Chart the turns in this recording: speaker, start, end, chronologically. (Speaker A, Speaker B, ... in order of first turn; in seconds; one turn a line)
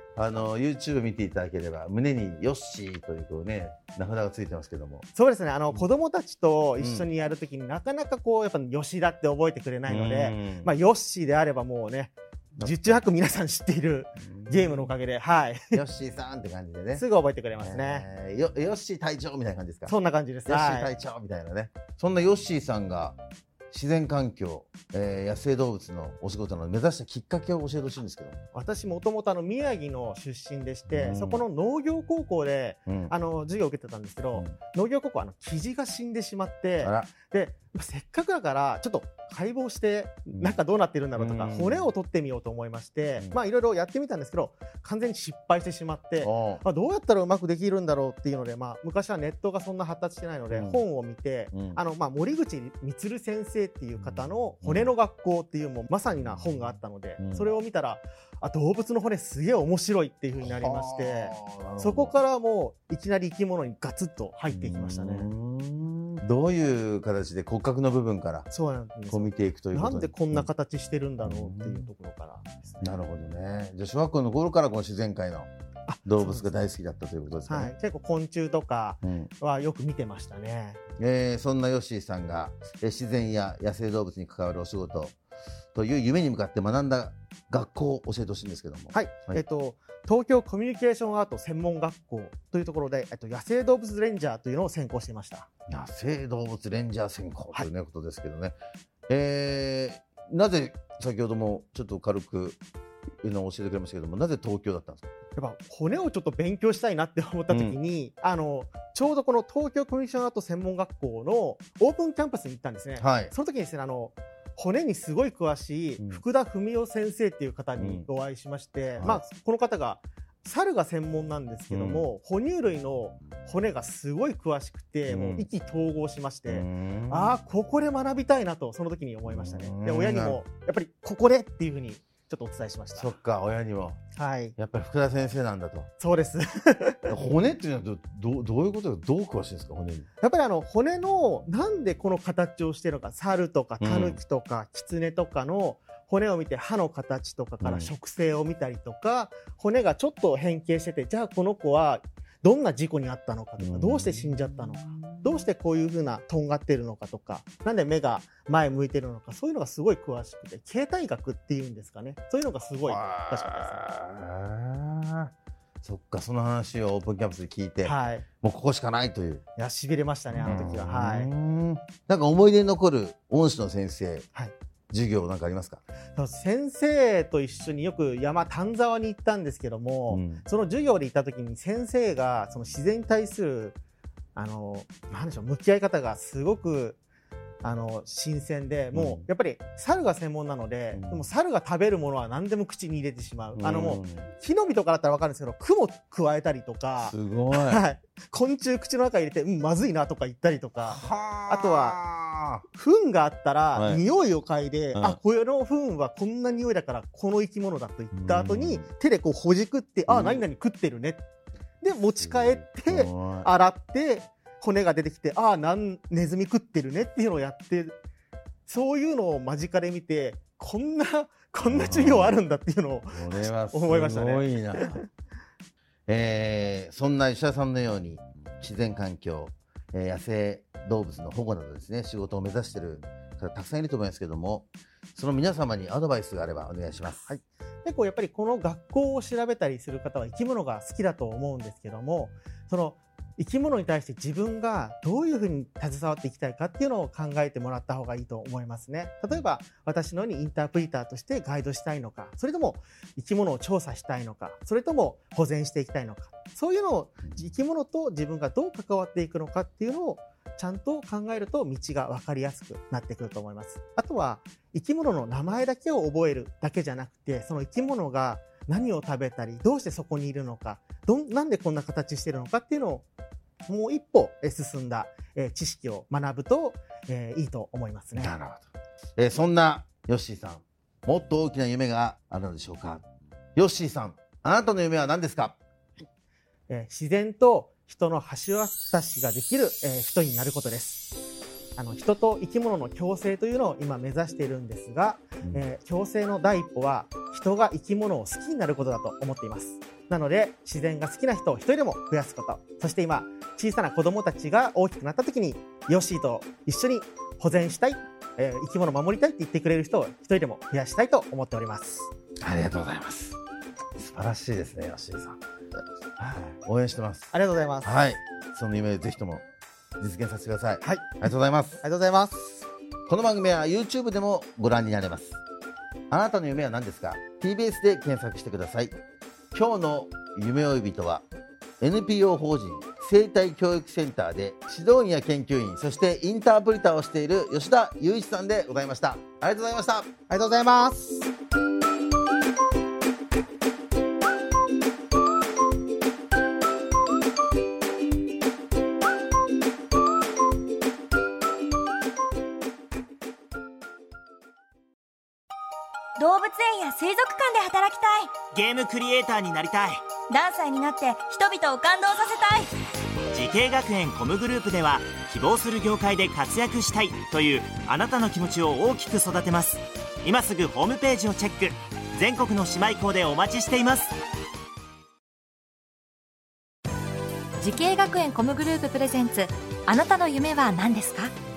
Speaker A: 0.2-5.1
Speaker B: 5.1-15.8
Speaker A: 6.8-7.1
Speaker A: 9.9-10.7
Speaker A: 12.6-13.0
Speaker A: 14.2-14.9
Speaker A: 15.7-17.1
Speaker B: 16.9-18.1
Speaker A: 17.6-19.9
Speaker B: 19.9-20.9
Speaker A: 20.5-23.2
Speaker A: 23.7-28.4
Speaker B: 28.5-65.3
Speaker A: 30.9-31.4
Speaker A: 32.9-33.1
Speaker A: 36.8-37.1
Speaker A: 41.2-41.9
Speaker A: 46.2-46.6
Speaker A: 50.5-50.8
Speaker A: 51.5-51.8
Speaker A: 54.0-54.9
Speaker A: 56.2-57.5
Speaker A: 60.4-62.1
Speaker A: 64.5-68.5
Speaker B: 68.5-73.0
Speaker A: 69.1-70.5
Speaker A: 71.2-71.9
Speaker A: 72.8-75.5
Speaker B: 75.9-76.5
Speaker A: 76.1-77.7
Speaker B: 77.5-80.8
Speaker A: 79.0-79.3
Speaker A: 81.0-85.2
Speaker A: 85.8-89.4
Speaker B: 88.9-95.5
Speaker A: 95.7-98.6
Speaker A: 99.1-102.6
Speaker A: 103.2-105.0
Speaker B: 105.3-133.1
Speaker A: 107.5-107.8
Speaker A: 113.0-113.3
Speaker A: 117.8-118.1
Speaker A: 119.0-119.2
Speaker A: 121.7-122.1
Speaker A: 125.1-125.5
Speaker A: 126.5-127.4
Speaker A: 129.2-130.4
Speaker A: 132.9-134.0
Speaker B: 134.1-134.6
Speaker A: 134.6-135.9
Speaker B: 136.0-137.2
Speaker A: 137.1-140.1
Speaker B: 140.2-163.8
Speaker A: 143.8-144.2
Speaker A: 147.6-147.9
Speaker A: 153.6-155.5
Speaker A: 162.9-165.3
Speaker A: 165.8-169.4
Speaker B: 167.8-168.2
Speaker B: 169.6-171.3
Speaker A: 170.3-174.3
Speaker A: 174.9-175.8
Speaker B: 176.2-183.8
Speaker A: 180.1-180.4
Speaker B: 184.3-187.0
Speaker B: 187.6-202.0
Speaker A: 188.9-189.3
Speaker A: 190.9-191.2
Speaker A: 193.6-194.3
Speaker A: 197.0-197.8
Speaker A: 200.8-202.6
Speaker B: 202.7-211.2
Speaker A: 203.7-204.0
Speaker A: 204.9-205.2
Speaker A: 208.1-208.9
Speaker A: 210.1-210.4
Speaker B: 211.8-218.0
Speaker A: 212.2-213.5
Speaker B: 218.7-225.1
Speaker A: 221.7-222.4
Speaker A: 223.1-225.0
Speaker A: 226.1-237.3
Speaker B: 237.2-273.1
Speaker B: 273.7-278.4
Speaker A: 278.2-283.1
Speaker A: 283.6-285.6
Speaker B: 286.7-291.1
Speaker B: 291.8-312.1
Speaker A: 312.4-313.4
Speaker A: 314.0-315.4
Speaker A: 316.2-317.3
Speaker B: 317.3-318.0
Speaker A: 317.8-319.4
Speaker A: 320.0-321.8
Speaker B: 320.8-321.3
Speaker B: 321.8-322.6
Speaker A: 323.1-325.4
Speaker A: 326.1-329.0
Speaker A: 329.5-331.2
Speaker A: 331.8-340.1
Speaker B: 340.3-341.3
Speaker C: 356.2-358.4
Speaker D: 358.5-360.0
Speaker C: 360.3-362.7
Speaker D: 363.3-374.1
Speaker E: 377.6-381.4